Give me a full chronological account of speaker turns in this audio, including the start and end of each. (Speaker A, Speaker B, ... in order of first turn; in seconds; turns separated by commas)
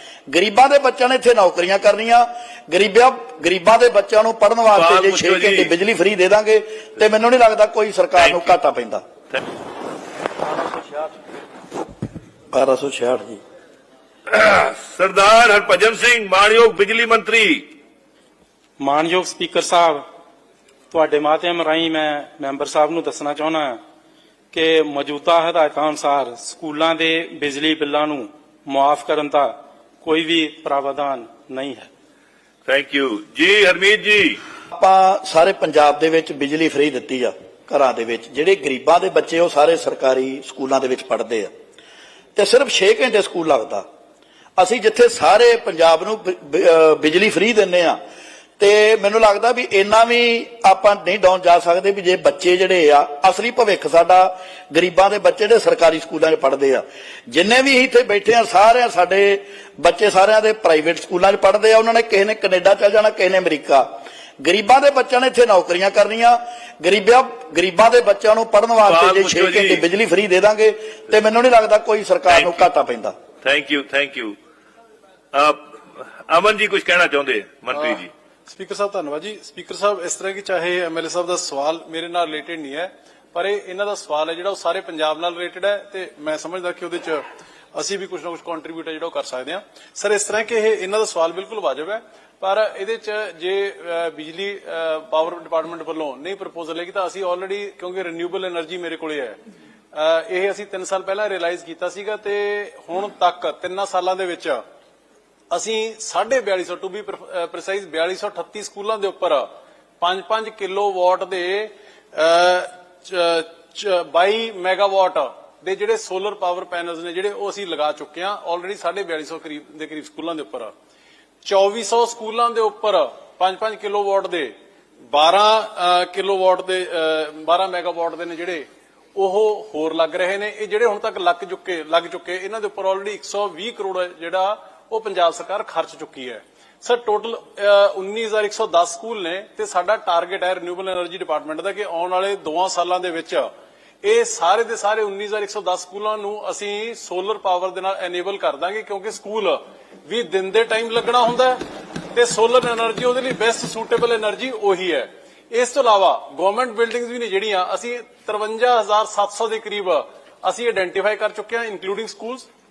Speaker A: 0.3-9.0, Speaker B: 4.7-5.7, Speaker B: 8.2-8.5, Speaker A: 12.5-13.4, Speaker B: 14.3-17.6, Speaker C: 18.8-20.0, Speaker C: 20.9-23.8, Speaker C: 24.5-31.9, Speaker B: 32.6-34.4, Speaker A: 34.7-41.5, Speaker A: 42.4-43.8, Speaker A: 44.6-48.0, Speaker A: 48.6-63.9, Speaker A: 64.4-73.1, Speaker B: 68.8-69.8, Speaker B: 72.3-72.6, Speaker B: 73.4-74.3, Speaker B: 75.3-78.1, Speaker D: 77.7-87.2, Speaker D: 87.7-99.4, Speaker D: 99.9-104.6, Speaker D: 105.5-109.5, Speaker D: 110.0-120.7, Speaker D: 121.4-124.5, Speaker D: 125.1-143.5, Speaker D: 144.0-151.6, Speaker D: 152.1-162.5